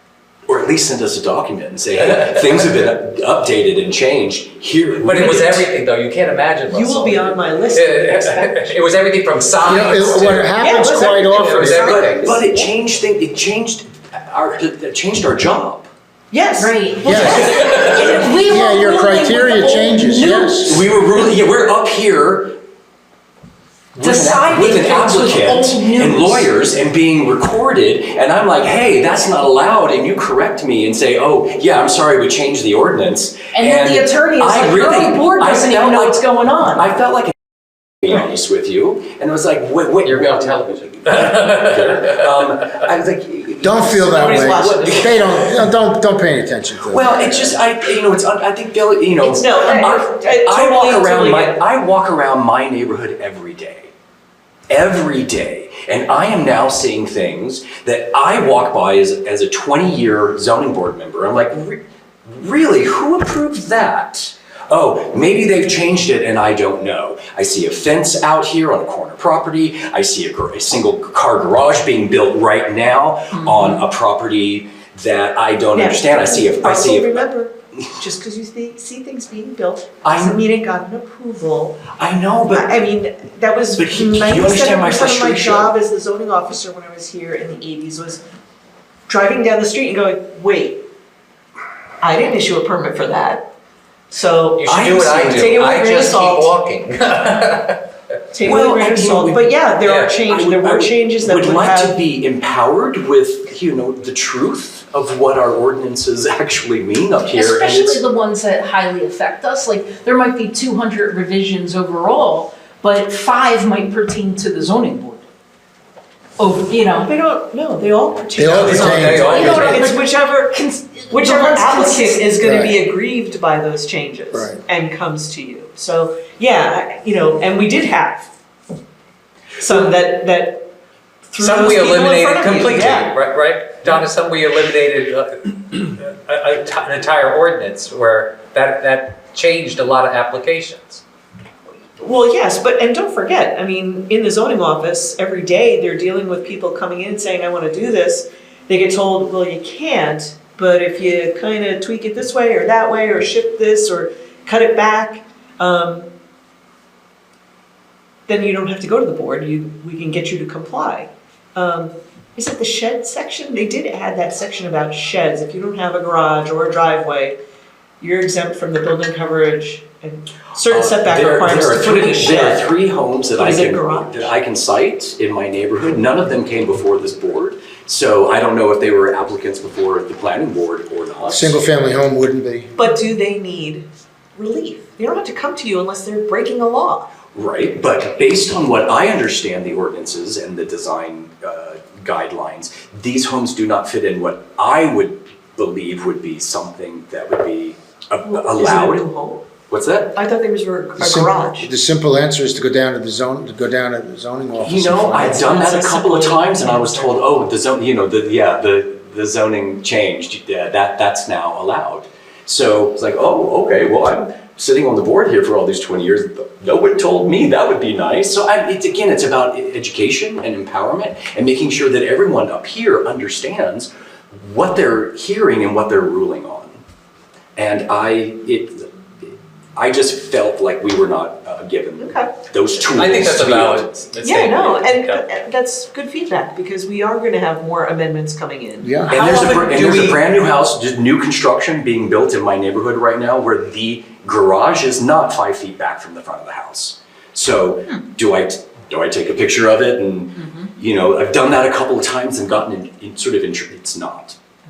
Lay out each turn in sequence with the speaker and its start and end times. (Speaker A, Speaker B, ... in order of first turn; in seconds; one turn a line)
Speaker A: 0.5-5.7
Speaker B: 5.0-12.3
Speaker C: 6.7-8.8
Speaker D: 9.6-12.0
Speaker C: 10.5-12.5
Speaker A: 11.8-15.9
Speaker C: 16.3-18.4
Speaker E: 16.6-17.2
Speaker D: 17.0-17.6
Speaker B: 17.1-18.1
Speaker A: 17.2-18.2
Speaker E: 17.9-20.8
Speaker D: 18.3-20.8
Speaker A: 20.6-22.6
Speaker E: 24.0-26.5
Speaker A: 24.0-37.3
Speaker E: 33.5-36.9
Speaker A: 38.0-45.5
Speaker B: 40.0-42.1
Speaker D: 43.6-47.2
Speaker C: 44.2-44.7
Speaker B: 44.7-45.0
Speaker A: 46.9-53.9
Speaker C: 49.2-51.6
Speaker A: 54.7-77.3
Speaker E: 73.5-73.8
Speaker C: 75.7-81.9
Speaker A: 80.0-80.4
Speaker A: 82.0-82.8
Speaker C: 82.4-88.2
Speaker A: 83.8-85.7
Speaker C: 89.1-90.8
Speaker C: 92.0-93.5
Speaker C: 94.1-96.5
Speaker B: 94.6-97.8
Speaker A: 94.7-95.5
Speaker C: 98.3-102.0
Speaker A: 98.4-99.5
Speaker B: 99.8-100.1
Speaker A: 100.2-108.0
Speaker E: 107.2-115.2
Speaker E: 116.4-117.1
Speaker C: 117.0-128.3
Speaker D: 118.4-119.8
Speaker B: 118.5-119.8
Speaker E: 119.7-122.3
Speaker D: 122.4-122.8
Speaker D: 124.3-124.6
Speaker C: 129.6-130.7
Speaker C: 131.3-133.2
Speaker B: 131.4-141.0
Speaker C: 141.7-156.1
Speaker C: 158.3-167.4
Speaker C: 168.0-172.7
Speaker A: 170.7-181.6
Speaker C: 173.4-174.3
Speaker D: 181.3-182.8
Speaker C: 182.8-187.1
Speaker A: 187.3-199.1
Speaker C: 198.2-199.5
Speaker A: 199.7-200.2
Speaker C: 200.2-201.7
Speaker D: 201.0-205.5
Speaker A: 204.6-226.8
Speaker C: 205.3-207.2
Speaker A: 227.6-234.1
Speaker C: 232.0-232.3
Speaker B: 232.8-235.3
Speaker C: 234.2-240.2
Speaker D: 238.8-239.2
Speaker A: 239.1-254.4